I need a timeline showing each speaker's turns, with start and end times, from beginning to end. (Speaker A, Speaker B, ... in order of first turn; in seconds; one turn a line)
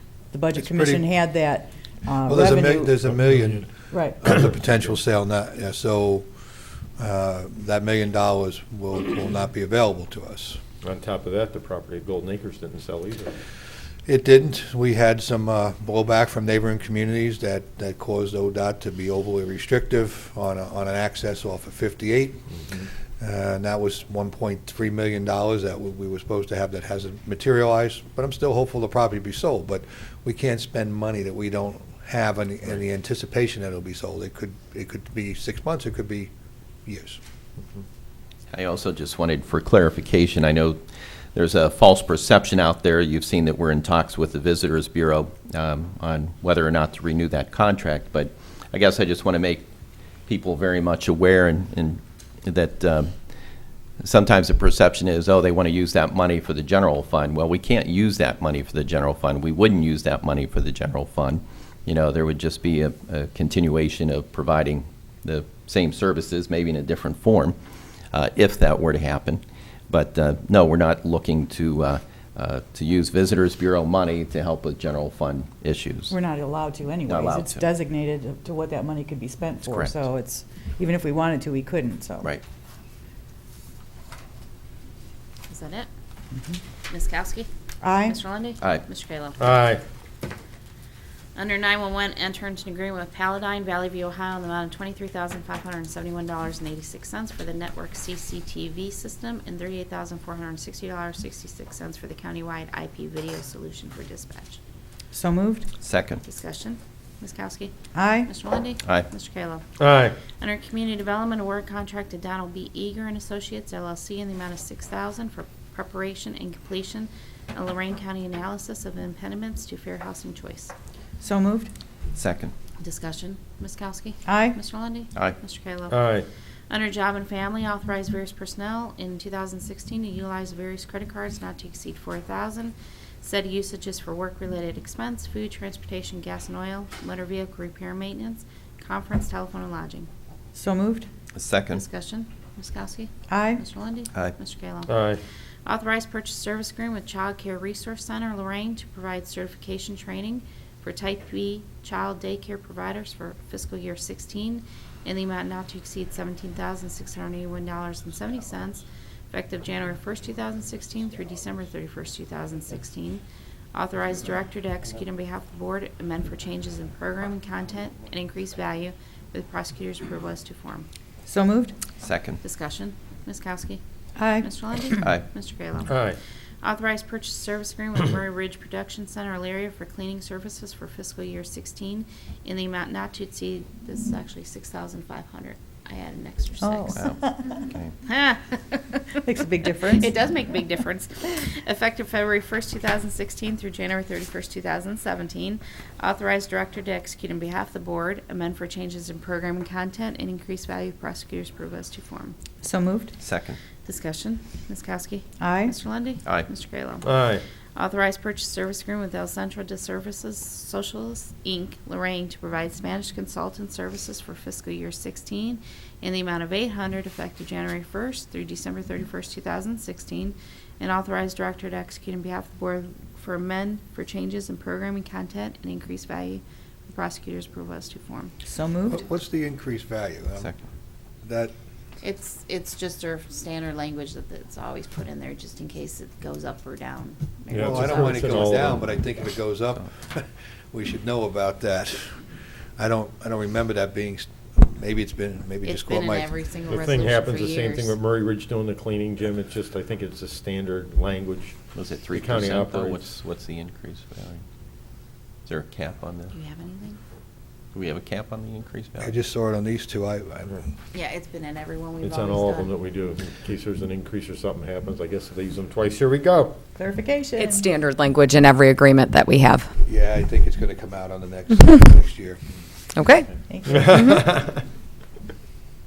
Speaker A: 0.3-3.0
Speaker B: 0.6-1.1
Speaker B: 2.2-6.3
Speaker A: 3.9-4.2
Speaker B: 7.0-10.6
Speaker C: 10.8-13.4
Speaker B: 14.1-22.4
Speaker C: 22.6-22.9
Speaker B: 23.2-36.3
Speaker B: 36.9-37.2
Speaker D: 38.5-40.8
Speaker D: 41.3-49.6
Speaker D: 50.2-53.2
Speaker D: 54.0-67.5
Speaker D: 68.1-76.1
Speaker A: 76.1-82.3
Speaker D: 77.1-77.6
Speaker D: 79.6-80.0
Speaker E: 85.5-85.9
Speaker E: 86.9-87.5
Speaker A: 87.8-88.2
Speaker E: 88.0-89.6
Speaker C: 89.4-89.8
Speaker E: 91.3-104.6
Speaker A: 105.1-105.7
Speaker D: 105.8-106.2
Speaker E: 106.2-107.7
Speaker A: 107.9-108.3
Speaker E: 108.2-109.6
Speaker D: 108.8-109.1
Speaker C: 109.8-110.2
Speaker E: 110.3-120.7
Speaker A: 121.2-121.7
Speaker D: 122.1-122.5
Speaker E: 122.8-126.0
Speaker A: 124.2-124.6
Speaker C: 125.9-126.3
Speaker E: 126.7-140.1
Speaker A: 140.5-141.1
Speaker D: 141.3-141.8
Speaker E: 141.7-145.0
Speaker A: 143.3-143.6
Speaker C: 144.9-145.2
Speaker E: 145.6-170.9
Speaker A: 171.2-171.7
Speaker D: 172.0-172.4
Speaker E: 172.4-173.8
Speaker A: 174.2-174.5
Speaker E: 174.4-176.0
Speaker D: 174.9-175.2
Speaker C: 175.8-176.2
Speaker E: 176.6-189.2
Speaker A: 186.6-187.6
Speaker D: 186.9-187.9
Speaker A: 189.2-190.1
Speaker E: 189.8-202.4
Speaker A: 202.6-203.2
Speaker D: 203.2-203.6
Speaker E: 203.8-207.1
Speaker A: 205.4-205.7
Speaker C: 207.0-207.4
Speaker E: 207.7-228.3
Speaker A: 228.4-229.0
Speaker B: 228.9-230.5
Speaker B: 231.2-231.5
Speaker E: 232.0-238.5
Speaker C: 237.5-239.0
Speaker B: 237.6-246.4
Speaker E: 245.6-248.0
Speaker C: 246.6-253.1
Speaker D: 251.7-254.4
Speaker D: 255.4-256.4
Speaker E: 256.3-257.0
Speaker D: 257.7-259.1
Speaker B: 259.0-260.7
Speaker E: 260.9-262.7
Speaker C: 262.0-266.6
Speaker A: 266.8-267.7
Speaker F: 267.4-269.7
Speaker B: 269.8-272.4
Speaker F: 272.9-273.3
Speaker A: 273.5-274.0
Speaker C: 273.7-274.6
Speaker F: 273.9-274.2